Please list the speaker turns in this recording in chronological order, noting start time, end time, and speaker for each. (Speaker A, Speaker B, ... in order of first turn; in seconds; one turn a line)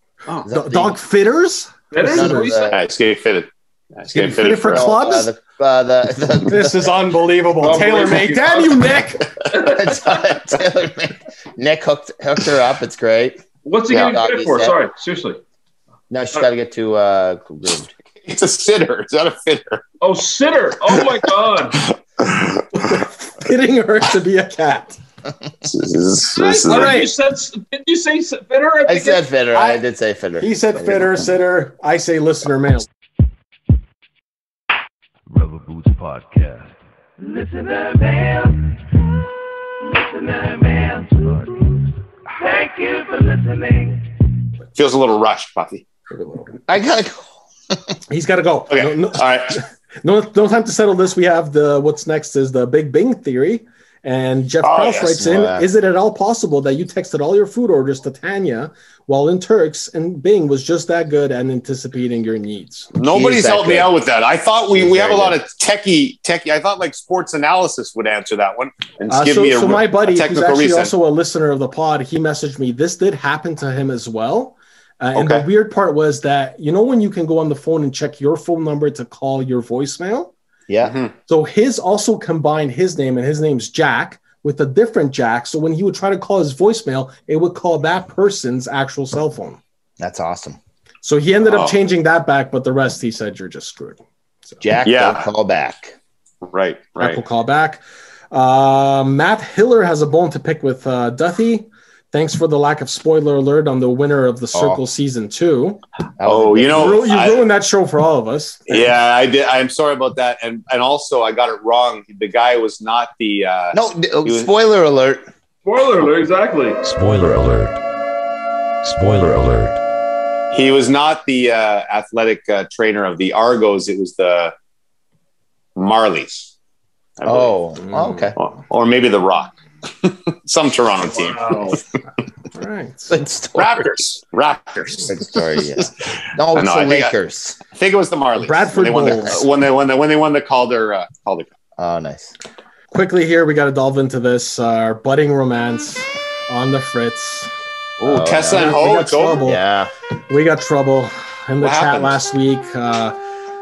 Speaker A: 0.4-1.0
Speaker B: 0.5-2.5
Speaker C: 1.9-2.8
Speaker A: 2.0-2.8
Speaker D: 2.7-4.8
Speaker B: 4.1-5.3
Speaker A: 4.6-7.0
Speaker B: 6.5-9.3
Speaker C: 7.6-9.0
Speaker C: 9.5-10.0
Speaker A: 9.5-14.8
Speaker C: 13.6-15.4
Speaker A: 16.1-17.9
Speaker D: 18.2-19.9
Speaker C: 20.0-21.8
Speaker D: 22.2-22.6
Speaker B: 22.7-25.0
Speaker D: 25.6-27.0
Speaker C: 26.4-29.2
Speaker B: 26.7-27.1
Speaker A: 28.9-31.3
Speaker B: 29.5-29.8
Speaker B: 30.4-32.9
Speaker E: 35.3-36.7
Speaker E: 37.4-38.3
Speaker E: 40.3-41.7
Speaker E: 42.5-43.1
Speaker D: 44.8-45.8
Speaker B: 46.1-46.5
Speaker A: 46.7-47.8
Speaker B: 48.1-62.9
Speaker D: 48.7-49.6
Speaker D: 54.6-55.1
Speaker A: 55.0-55.6
Speaker D: 62.9-70.9
Speaker A: 63.0-63.9
Speaker A: 64.7-65.4
Speaker B: 69.1-80.3
Speaker D: 75.1-75.4
Speaker A: 80.7-80.9
Speaker D: 80.8-81.1
Speaker B: 81.3-89.6
Speaker A: 90.0-90.6
Speaker B: 91.0-94.6
Speaker D: 91.4-91.7
Speaker A: 94.6-95.9
Speaker D: 94.8-95.3
Speaker D: 96.4-97.2
Speaker B: 97.0-105.8
Speaker A: 104.5-104.8
Speaker A: 106.2-107.1
Speaker D: 106.2-107.4
Speaker B: 106.7-108.9
Speaker D: 108.7-114.5
Speaker A: 113.7-115.2
Speaker C: 115.6-116.8
Speaker F: 116.8-117.8
Speaker F: 118.8-119.8
Speaker D: 120.5-124.5
Speaker D: 125.8-126.5
Speaker D: 127.2-127.5
Speaker A: 127.2-128.3
Speaker B: 127.8-128.3
Speaker D: 128.4-131.8
Speaker C: 131.0-131.8
Speaker B: 132.5-133.2
Speaker A: 133.1-133.9
Speaker D: 133.6-135.9
Speaker A: 135.1-137.6
Speaker D: 136.5-137.1
Speaker D: 137.7-141.5
Speaker B: 138.3-139.4
Speaker A: 141.8-142.3
Speaker B: 142.9-147.5
Speaker A: 148.0-148.8
Speaker D: 148.0-149.5
Speaker B: 148.4-149.6
Speaker A: 149.4-149.9
Speaker B: 150.3-153.2
Speaker D: 151.6-152.2